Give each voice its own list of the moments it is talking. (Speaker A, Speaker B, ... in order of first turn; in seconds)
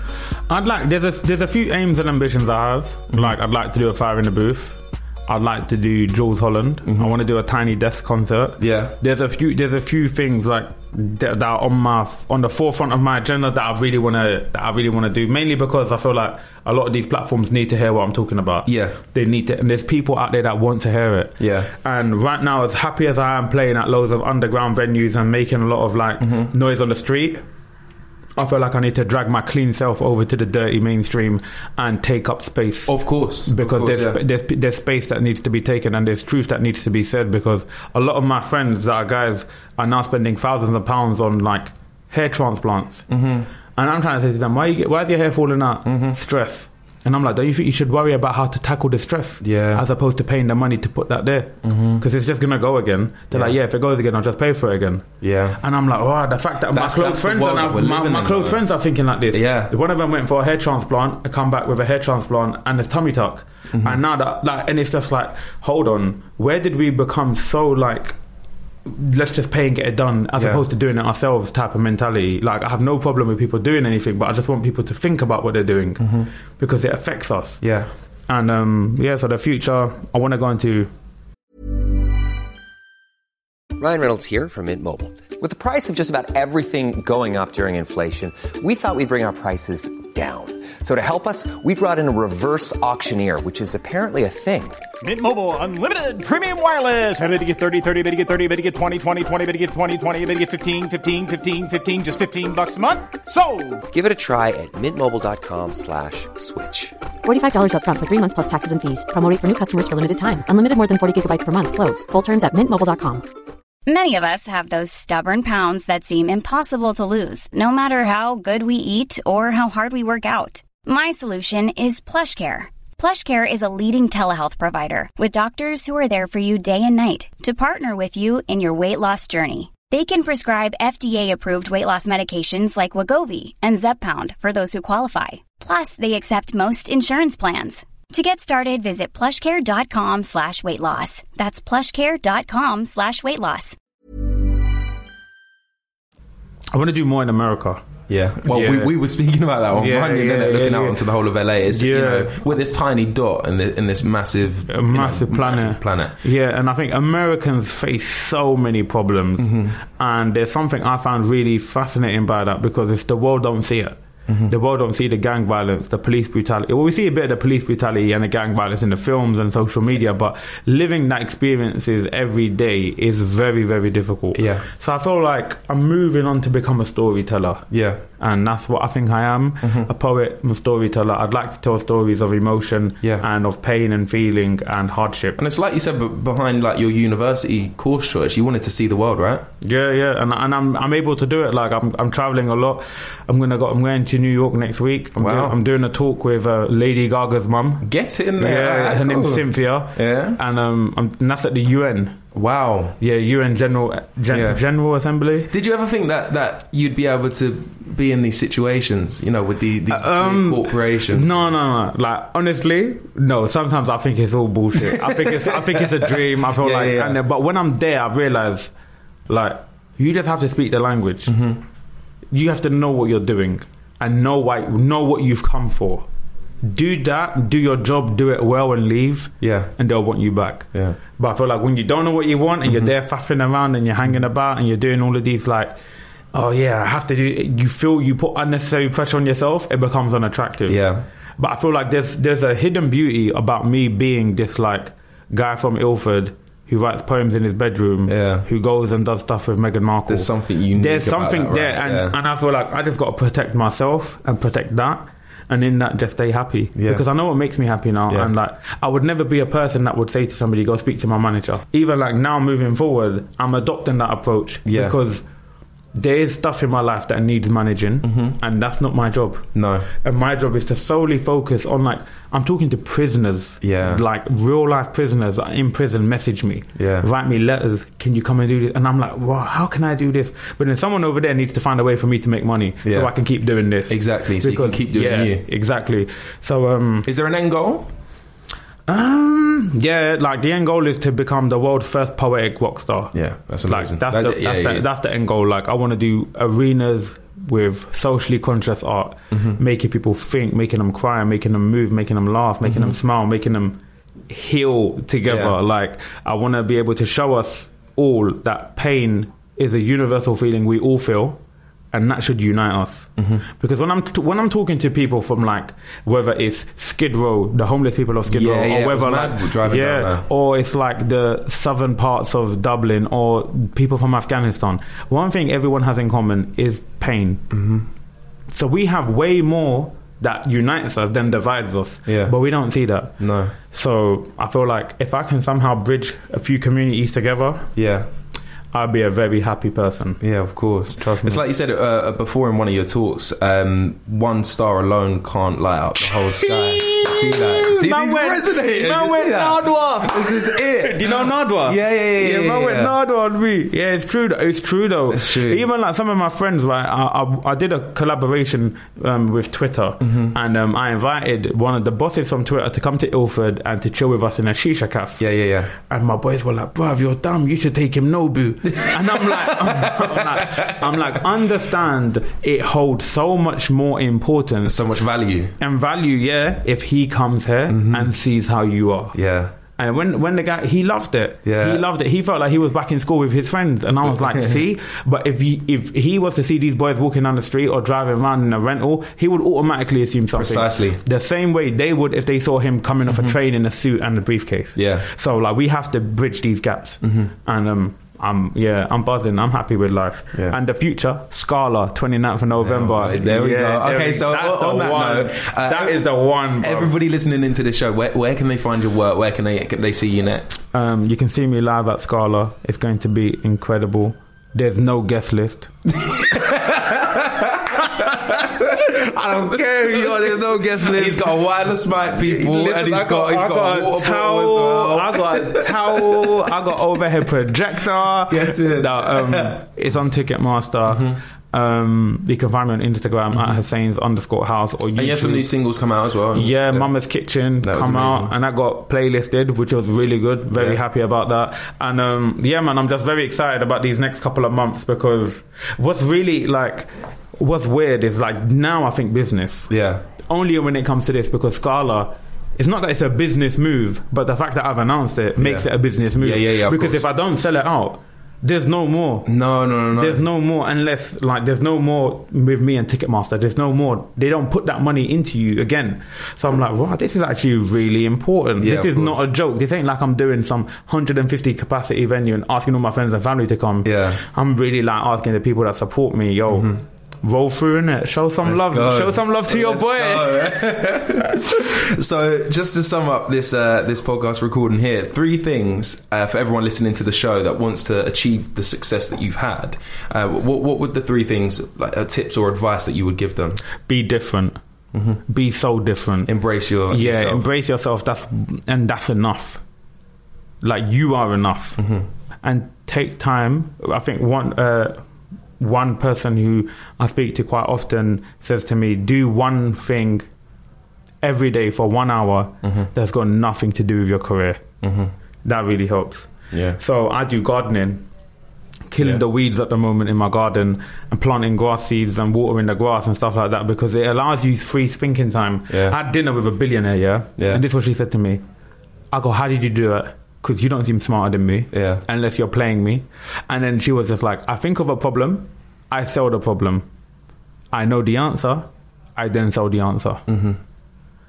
Speaker A: 0.5-27.4, 28.4-43.1, 43.8-55.0, 55.6-68.2, 68.8-76.1, 76.6-77.6, 78.3-80.9, 146.7-147.8, 148.4-149.0, 149.7-151.0, 151.6-152.5, 154.7-177.6, 178.2-185.4, 189.6-197.8, 198.4-202.2, 203.0-205.5, 209.9-218.7, 219.3-221.3, 222.3-226.0, 226.6-235.7, 236.3-240.8, 241.4-265.2, 265.9-269.5, 270.0-287.1, 288.9-311.4, 311.9-327.4, 328.5-333.1, 333.6-337.7, 338.7-340.2, 341.0-341.4, 346.0-365.2, 365.8-374.8, 375.6-379.1, 379.8-406.9, 410.7-415.7, 416.2-421.4, 422.1-435.5, 436.3-459.3, 459.9-480.6, 493.8-494.6, 495.3-496.3, 496.9-499.6, 500.6-501.8, 502.4-505.0, 505.6-510.3, 511.2-514.6, 515.4-518.0, 518.9-528.4, 529.1-536.9, 537.7-540.2
Speaker B: 6.8-7.1, 8.6-8.9, 18.6-19.0, 21.4-21.7, 26.2-26.5, 32.9-34.2, 43.1-43.5, 45.8-46.2, 49.4-49.8, 51.6-52.0, 55.2-55.6, 56.7-58.7, 59.3-59.7, 63.7-64.0, 70.4-70.6, 76.0-76.3, 77.6-77.9, 148.1-156.2, 159.4-159.8, 174.3-174.6, 177.7-178.0, 179.6-179.9, 185.4-189.4, 195.2-195.6, 197.8-200.4, 202.3-203.0, 204.3-204.6, 205.5-211.5, 214.7-217.2, 221.3-221.6, 229.4-229.7, 230.7-231.0, 240.7-241.0, 248.1-248.5, 250.1-252.2, 256.7-257.0, 264.6-265.0, 268.0-268.4, 269.5-269.9, 273.6-274.0, 276.8-277.1, 282.8-283.1, 283.9-285.4, 287.0-287.9, 293.1-294.9, 299.3-299.6, 302.6-302.9, 305.2-305.6, 313.2-313.4, 318.3-320.2, 327.5-327.9, 332.1-332.3, 333.2-333.5, 337.8-338.1, 340.2-352.9, 355.1-355.6, 360.0-360.3, 365.2-365.7, 368.6-371.2, 374.6-375.5, 377.7-378.1, 379.1-379.5, 381.4-381.8, 384.0-384.6, 390.3-391.0, 393.1-393.3, 394.8-395.1, 397.0-397.3, 402.6-410.5, 415.9-418.8, 419.9-426.4, 428.3-429.6, 430.9-431.2, 433.3-433.6, 434.9-436.9, 437.6-438.3, 440.5-440.8, 449.7-450.0, 455.4-457.0, 459.2-460.2, 468.6-469.2, 473.8-474.2, 476.5-476.8, 478.4-493.6, 494.9-495.2, 496.3-497.4, 501.8-502.1, 514.8-515.1, 516.5-516.8, 525.7-526.0, 531.7-532.0, 540.3-540.6
Speaker C: 83.8-94.8, 103.9-107.0
Speaker D: 95.0-103.8
Speaker E: 107.2-113.2
Speaker F: 113.9-143.8